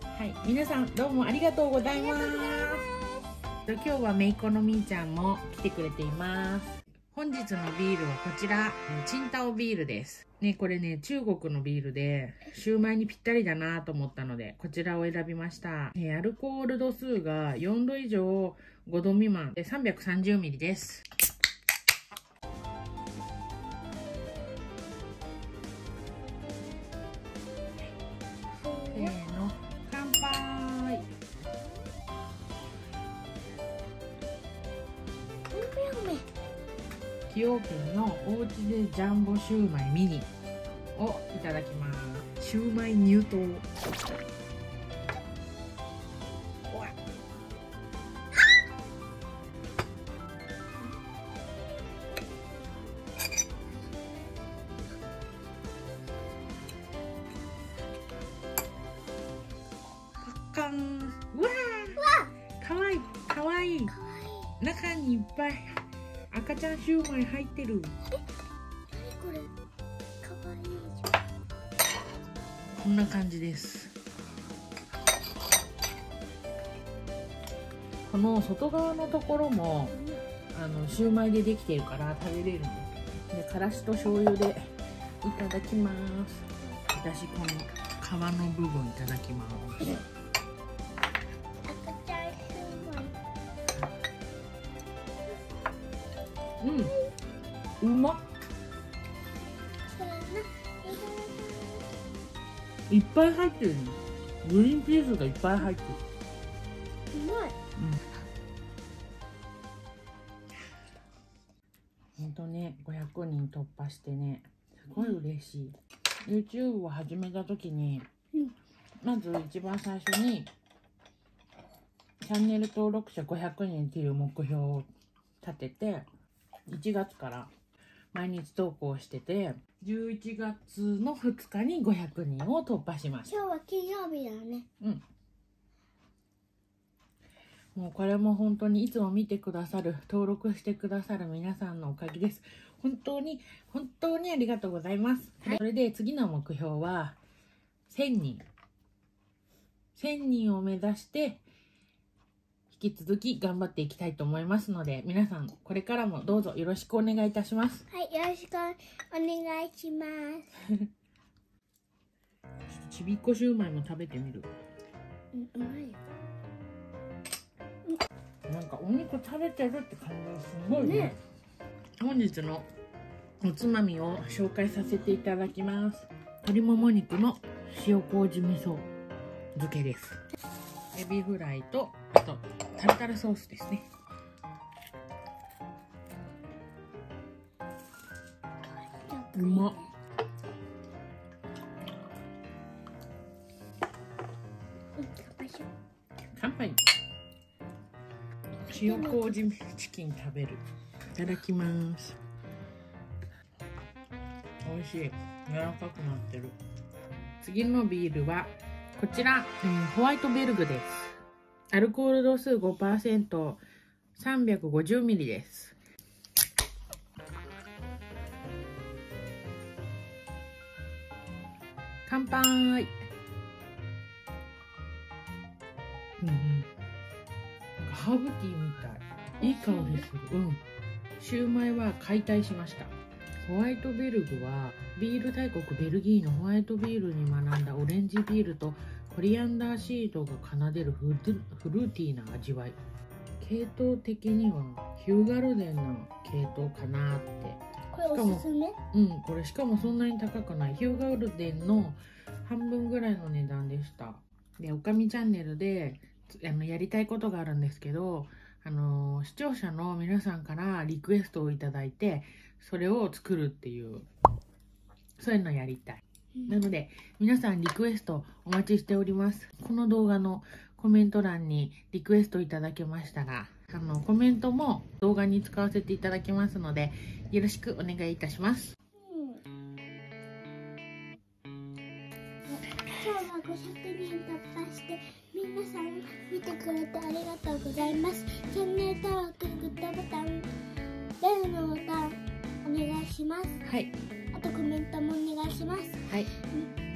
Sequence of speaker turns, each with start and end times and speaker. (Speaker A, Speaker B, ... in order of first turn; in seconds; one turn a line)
Speaker A: 0.1-2.9
Speaker B: 1.8-3.2
Speaker A: 3.6-21.1
Speaker B: 28.6-29.1
Speaker A: 28.9-31.0
Speaker B: 35.5-36.3
Speaker A: 37.3-40.3
Speaker A: 41.0-43.6
Speaker A: 60.2-62.0
Speaker B: 62.0-62.3
Speaker A: 62.6-63.9
Speaker B: 63.9-64.5
Speaker A: 64.6-65.8
Speaker A: 66.3-67.9
Speaker B: 68.9-69.5
Speaker B: 70.2-71.1
Speaker A: 72.8-73.9
Speaker A: 78.1-79.9
Speaker B: 79.9-80.2
Speaker A: 80.5-84.6
Speaker A: 85.2-90.0
Speaker B: 91.7-93.1
Speaker A: 96.6-96.9
Speaker A: 97.8-98.2
Speaker B: 99.9-101.8
Speaker A: 102.9-106.0
Speaker B: 107.1-107.5
Speaker A: 112.2-118.1
Speaker A: 119.0-120.5
Speaker A: 122.2-124.9
Speaker A: 125.4-126.0
Speaker A: 126.7-127.5
Speaker A: 128.1-133.3
Speaker B: 133.2-134.7
Speaker A: 137.7-147.2
Speaker A: 147.9-148.4
Speaker A: 149.9-151.4
Speaker A: 152.7-157.8
Speaker B: 157.9-160.5
Speaker A: 162.7-164.5
Speaker B: 165.3-166.0
Speaker A: 168.5-171.2
Speaker B: 170.7-171.2
Speaker A: 172.0-172.7
Speaker A: 173.4-178.9
Speaker A: 179.5-180.2
Speaker A: 180.9-183.8
Speaker B: 188.7-189.9
Speaker A: 189.3-189.8
Speaker B: 195.0-195.7
Speaker A: 196.3-196.8
Speaker B: 198.7-199.3
Speaker A: 198.7-200.6
Speaker A: 201.1-202.2
Speaker A: 204.6-206.6
Speaker A: 207.4-211.2
Speaker A: 211.7-213.6
Speaker A: 214.2-215.8
Speaker A: 222.1-222.9
Speaker A: 226.2-226.7
Speaker A: 227.8-230.6
Speaker B: 229.4-230.1
Speaker A: 231.2-242.8
Speaker A: 243.4-264.1
Speaker B: 247.9-248.8
Speaker A: 265.2-278.7
Speaker B: 266.4-266.6
Speaker B: 279.0-279.4
Speaker B: 282.5-290.5
Speaker B: 291.2-293.6
Speaker A: 293.6-293.9
Speaker B: 294.3-296.7